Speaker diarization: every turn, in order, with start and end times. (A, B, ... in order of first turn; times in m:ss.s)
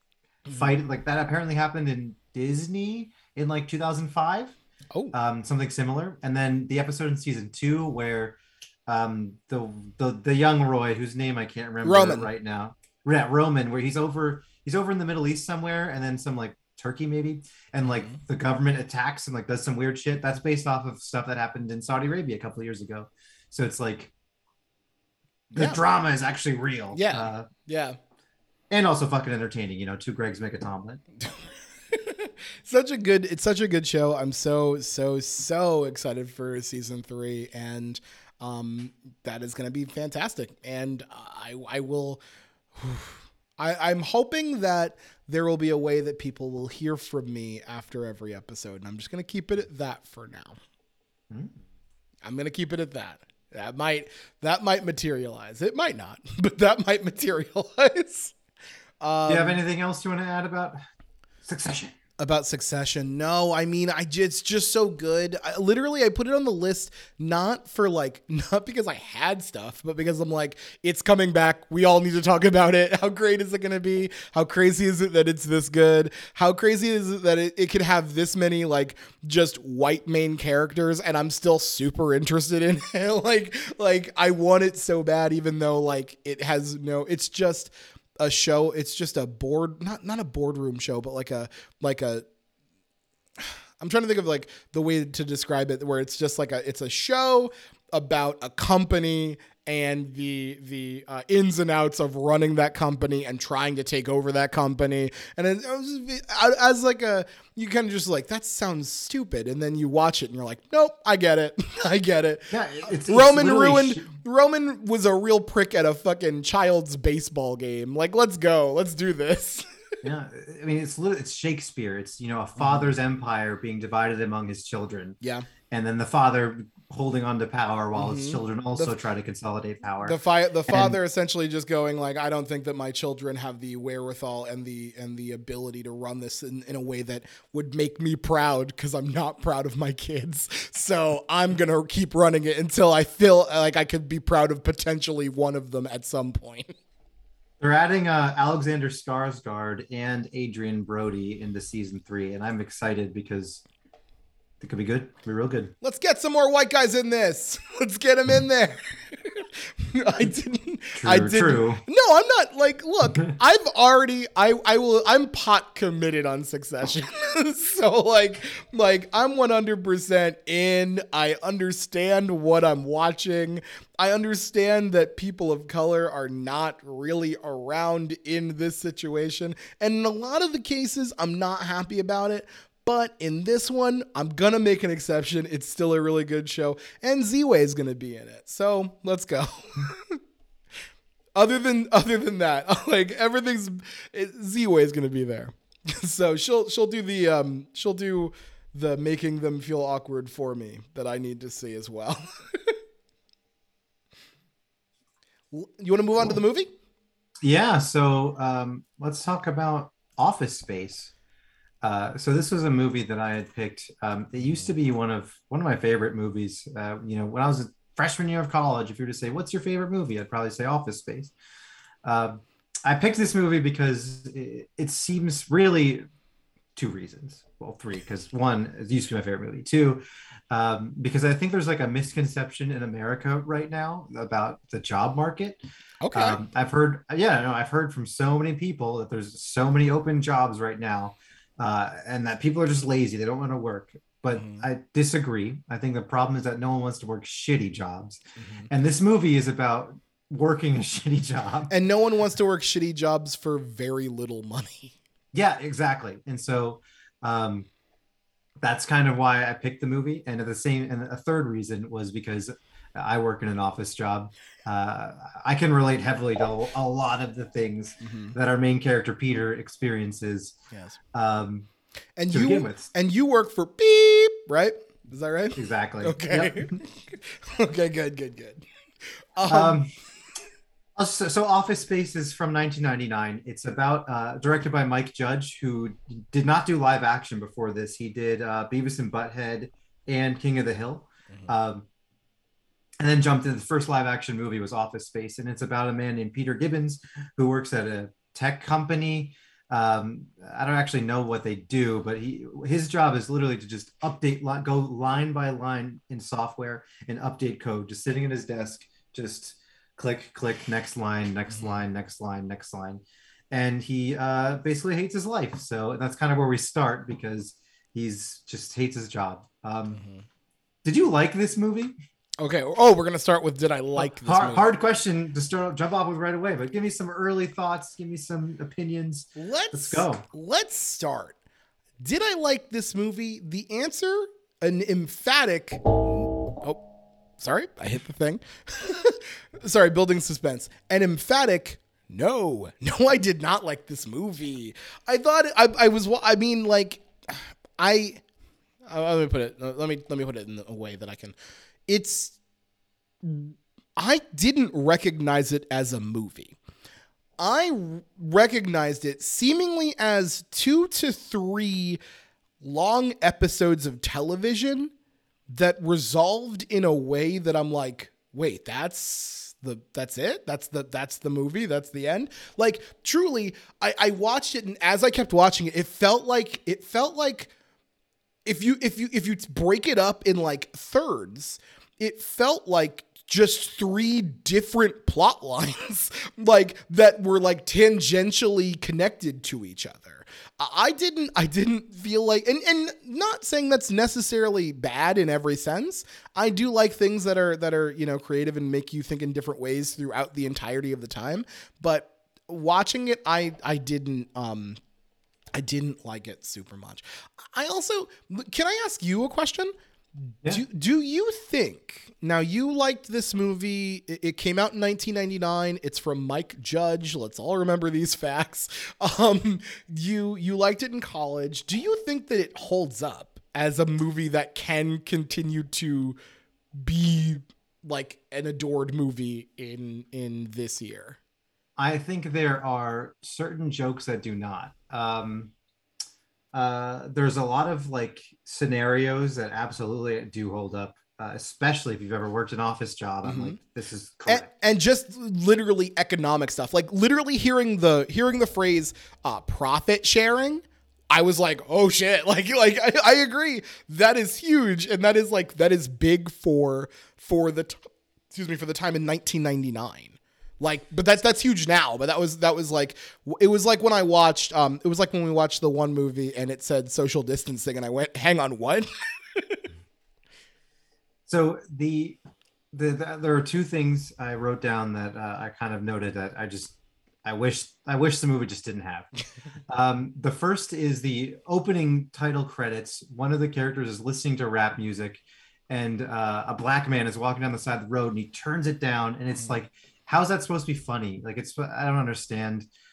0:00.5-0:00.7 A
0:00.5-0:04.6 B
0:05.1-0:24.1 B
0:11.8-0:12.3 A
0:17.9-0:18.2 A
0:25.5-0:27.5 B
0:26.9-0:28.0 A
0:28.7-0:31.0 B
0:31.2-0:42.2 A
0:42.7-0:50.6 A
0:51.3-0:51.6 B
0:52.2-0:58.3 A
0:59.0-0:59.6 A
0:59.3-1:00.8 B
1:01.4-1:02.0 B
1:02.2-1:32.2 A
1:33.4-1:59.6 A
1:52.5-1:54.0 B
2:00.0-2:05.2 B
2:02.6-2:02.9 A
2:05.2-2:05.5 A
2:05.7-2:11.0 B
2:07.9-2:08.9 A
2:10.0-2:26.7 A
2:27.6-2:33.6 B
2:34.6-2:35.7 B
2:35.8-3:10.2 A
2:41.0-2:41.8 B
3:11.3-3:22.8 A
3:25.5-3:26.7 A
3:27.4-3:31.1 B
3:31.8-3:41.3 B
3:42.0-3:46.0 B
3:46.8-3:55.6 B
3:56.0-3:56.4 A
3:56.1-4:11.7 B
4:04.3-4:04.6 A
4:08.4-4:08.7 A
4:11.7-4:14.9 A
4:15.3-4:17.7 B
4:18.6-4:30.6 B
4:28.0-4:28.4 A
4:30.7-4:31.0 A
4:31.1-4:31.7 B
4:32.2-4:38.6 A
4:32.3-4:32.9 B
4:35.6-4:36.7 B
4:39.4-4:39.8 A
4:39.5-4:39.9 B
4:41.0-4:51.9 B
4:53.0-5:20.0 B
5:11.5-5:11.8 A
5:19.9-5:20.2 A
5:20.8-5:22.0 B
5:22.4-5:24.7 A
5:24.0-5:30.2 B
5:29.4-5:31.4 A
5:32.0-5:36.8 A
5:37.4-5:48.2 A
5:48.9-5:51.3 A
5:51.9-5:52.4 A
5:53.2-5:56.6 A
5:57.4-6:02.0 A
6:02.6-6:04.9 A
6:05.5-6:17.5 A
6:18.4-6:44.8 A
6:45.5-6:49.7 A
6:50.4-7:06.2 A
7:06.8-7:11.2 A
7:11.8-7:15.5 B
7:16.5-7:24.5 B
7:23.2-7:23.6 A
7:24.3-7:49.6 A
7:51.3-7:52.2 B
7:52.7-7:59.1 B
7:59.7-8:12.7 B